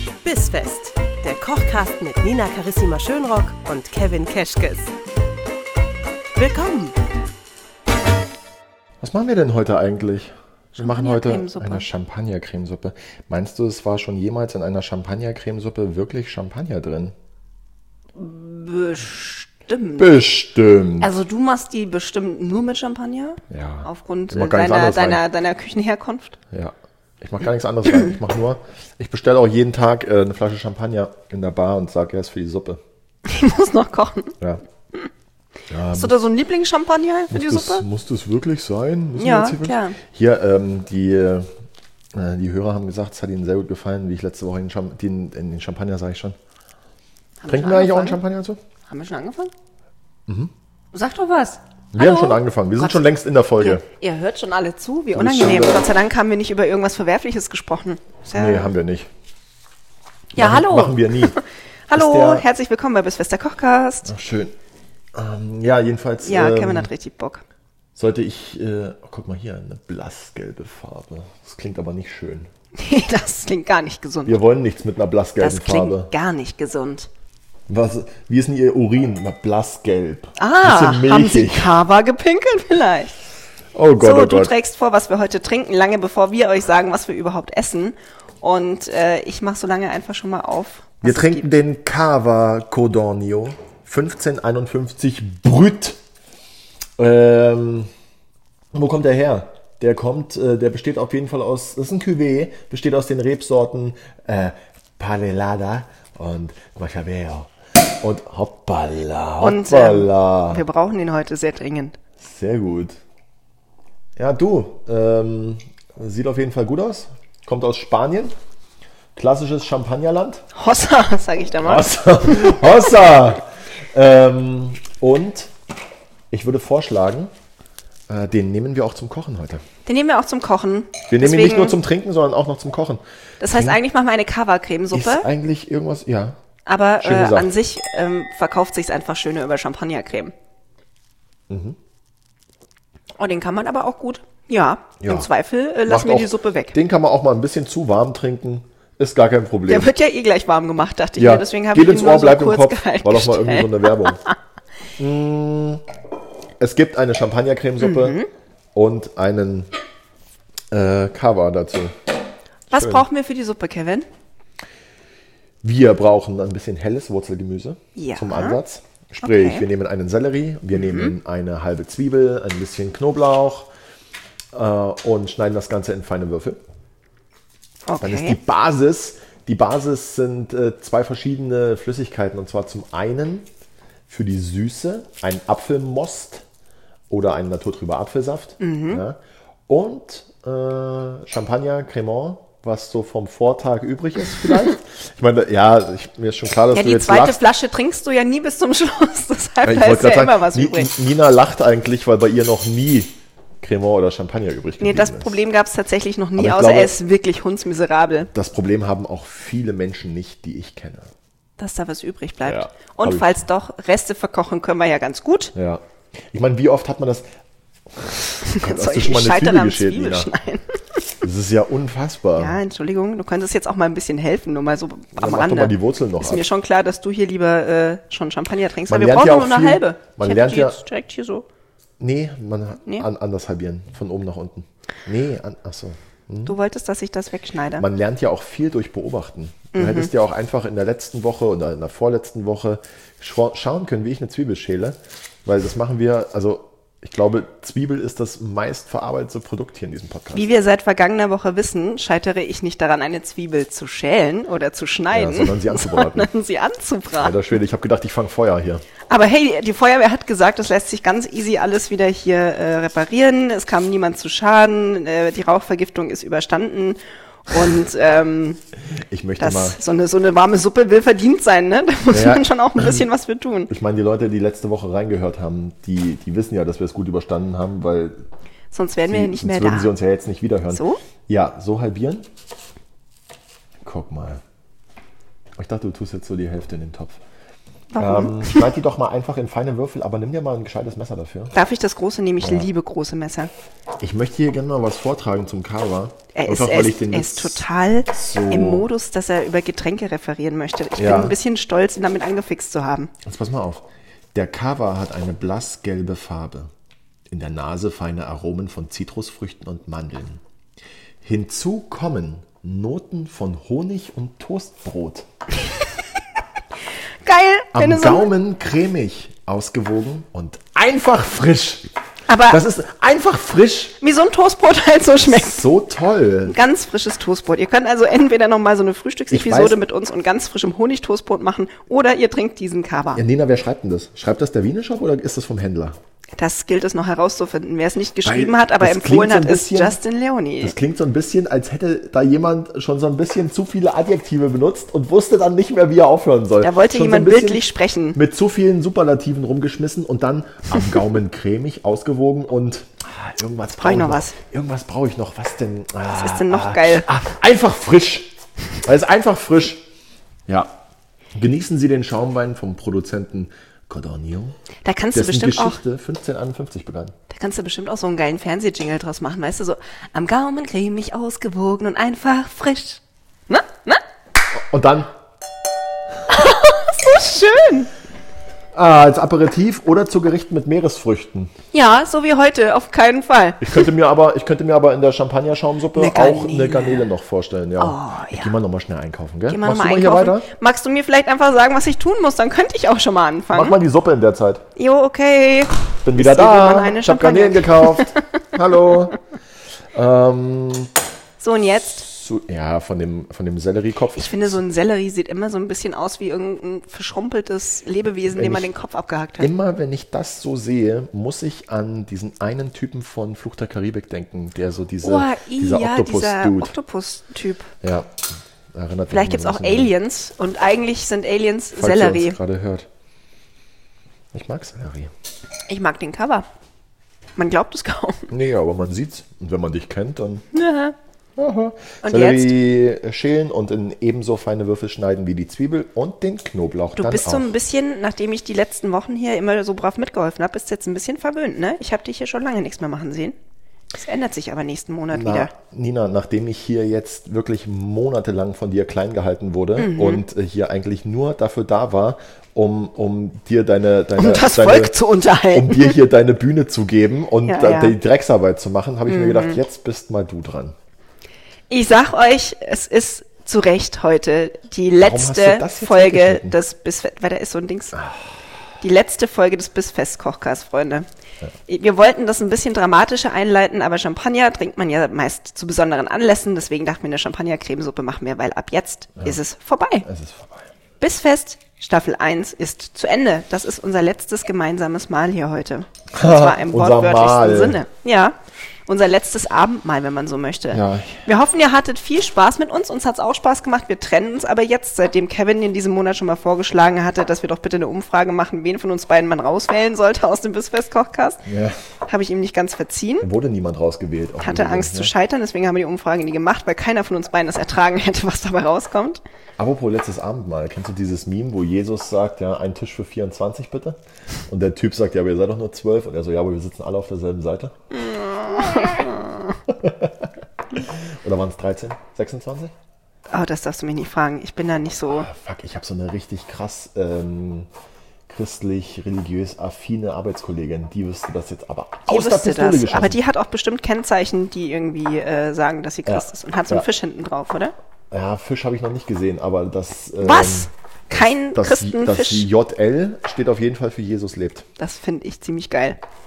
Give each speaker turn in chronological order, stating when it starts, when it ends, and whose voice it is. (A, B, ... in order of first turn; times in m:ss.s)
0:00.2-0:04.9 A
0:06.4-0:07.0 A
0:09.0-0:17.2 B
0:10.8-0:11.9 C
0:18.2-0:20.2 C
0:20.0-0:21.1 B
0:21.0-0:26.4 C
0:23.5-0:25.2 B
0:26.5-0:32.8 B
0:33.3-0:34.4 C
0:35.7-0:36.2 B
0:35.9-0:37.8 C
0:37.3-0:41.5 B
0:39.2-0:40.0 C
0:42.1-0:46.4 B
0:47.4-0:48.2 C
0:47.5-0:48.6 B
0:48.9-0:49.5 C
0:50.3-0:50.5 B
0:50.9-0:53.0 C
0:51.9-0:53.8 B
0:53.6-0:58.7 C
0:55.2-0:55.9 B
0:58.4-0:59.1 B
1:00.3-1:04.1 C
1:00.4-1:01.4 B
1:01.9-1:02.4 B
1:04.1-1:04.6 B
1:05.1-1:06.9 B
1:06.2-1:07.4 C
1:08.0-1:12.5 B
1:12.8-1:14.4 C
1:14.3-1:16.1 B
1:15.4-1:17.1 C
1:17.7-1:21.8 B
1:20.4-1:23.1 C
1:23.7-1:24.5 B
1:24.0-1:31.5 C
1:31.0-1:36.0 B
1:37.0-1:37.9 B
1:38.7-1:50.6 B
1:49.4-1:52.0 C
1:52.2-1:53.0 B
1:54.2-1:58.3 B
1:59.2-2:00.4 B
2:00.6-2:02.7 C
2:01.6-2:05.5 B
2:06.3-2:07.3 B
2:08.1-2:09.6 B
2:09.9-2:11.8 C
2:11.1-2:13.8 B
2:13.4-2:15.3 C
2:14.9-2:16.4 B
2:16.7-2:20.3 C
2:17.0-2:17.5 B
2:21.5-2:21.8 B
2:23.2-2:26.8 C
2:25.0-2:25.3 B
2:25.9-2:29.9 B
2:29.7-2:34.3 C
2:31.2-2:34.2 B
2:35.0-2:35.8 B
2:36.6-2:38.2 B
2:37.8-2:38.3 C
2:38.8-2:39.7 B
2:40.7-2:42.0 B
2:42.7-2:43.1 B
2:42.7-2:44.1 C
2:45.6-2:53.7 B
2:48.0-2:48.6 C
2:49.2-2:49.6 C
2:50.7-2:51.2 C
2:54.5-2:56.6 B
2:57.9-2:58.4 C
2:58.0-3:03.5 B
3:04.1-3:06.4 B
3:07.1-3:17.4 B
3:08.6-3:09.0 C
3:16.7-3:20.9 C
3:19.6-3:25.4 B
3:24.8-3:28.3 C
3:26.4-3:26.9 B
3:28.3-3:31.1 B
3:31.6-3:35.5 C
3:32.4-3:33.4 B
3:35.6-3:37.3 B
3:37.9-3:40.3 B
3:38.4-3:41.0 C
3:41.2-3:42.6 B
3:42.4-3:51.4 C
3:45.2-3:46.5 B
3:48.9-3:50.8 B
3:52.0-3:56.6 B
3:56.5-3:57.8 C
3:57.8-4:10.5 B
3:59.7-4:00.1 C
4:10.3-4:17.4 C
4:15.1-4:16.3 B
4:17.2-4:18.9 B
4:19.1-4:28.6 C
4:29.1-4:29.8 B
4:29.4-4:33.7 C
4:32.1-4:33.0 B
4:33.7-4:38.3 B
4:38.7-4:39.9 C
4:39.1-4:42.3 B
4:40.7-4:41.0 C
4:43.8-4:44.4 B
4:45.6-4:47.2 B
4:47.9-4:48.7 C
4:48.0-4:51.5 B
4:51.5-4:53.5 C
4:52.4-4:52.7 B
4:54.0-4:58.9 B
4:56.3-5:03.1 C
5:01.0-5:01.4 B
5:03.2-5:06.7 B
5:07.3-5:10.4 B
5:11.2-5:15.3 B
5:17.2-5:18.3 C
5:17.7-5:21.9 B
5:22.3-5:22.6 C
5:22.5-5:24.0 B
5:24.0-5:25.6 C
5:25.2-5:26.6 B
5:26.5-5:33.2 C
5:29.3-5:29.8 B
5:33.2-5:36.0 B
5:36.4-5:40.8 C
5:38.2-5:40.0 B
5:40.6-5:58.3 B
5:46.6-5:48.2 C
5:53.8-5:54.4 C
5:56.1-5:57.1 C
5:58.8-5:59.8 B
6:00.5-6:00.7 B
6:01.3-6:04.6 B
6:04.8-6:05.8 C
6:05.1-6:07.2 B
6:07.3-6:14.0 C
6:14.6-6:15.1 B
6:16.3-6:17.9 C
6:18.7-6:21.5 B
6:21.7-6:23.9 C
6:23.6-6:30.5 B
6:25.9-6:27.1 C
6:27.8-6:28.6 C
6:29.5-6:33.8 C
6:33.5-6:34.6 B
6:34.8-6:38.3 C
6:36.0-6:39.2 B
6:39.9-6:40.9 B
6:41.4-6:42.1 C
6:42.0-6:44.6 B
6:44.2-6:49.5 C
6:48.3-6:48.7 B
6:49.4-6:56.7 B
6:55.0-6:57.7 C
6:57.8-6:58.1 B
6:58.7-6:59.9 B
6:59.1-7:02.4 C
7:01.8-7:02.9 B
7:04.3-7:05.1 B
7:05.7-7:06.5 C
7:07.4-7:08.3 C
7:08.3-7:10.4 B
7:10.5-7:11.0 C
7:11.4-7:17.5 B
7:12.0-7:12.6 C
7:17.0-7:23.4 C
7:24.0-7:25.5 C
7:25.1-7:35.0 B
7:29.8-7:30.2 C
7:34.2-7:36.0 C
7:35.5-7:40.8 B
7:37.5-7:38.0 C
7:39.1-7:39.6 C
7:41.7-7:48.0 C
7:45.0-7:46.6 B
7:48.0-7:48.3 B
7:48.8-7:51.1 C
7:51.7-8:00.1 C
8:00.1-8:00.7 B
8:01.0-8:21.5 C
8:06.1-8:07.8 B
8:10.7-8:11.3 B
8:21.5-8:21.8 B
8:22.1-8:23.3 C
8:23.2-8:25.1 B
8:24.4-8:29.2 C
8:29.6-8:37.7 B
8:37.9-8:39.3 C
8:39.7-8:42.7 B
8:43.3-8:45.3 C
8:45.1-8:47.7 B
8:48.3-8:53.2 B
8:52.1-8:57.7 C
8:56.1-8:56.9 B
8:58.1-9:04.7 B
9:00.2-9:02.5 C
9:04.8-9:06.0 C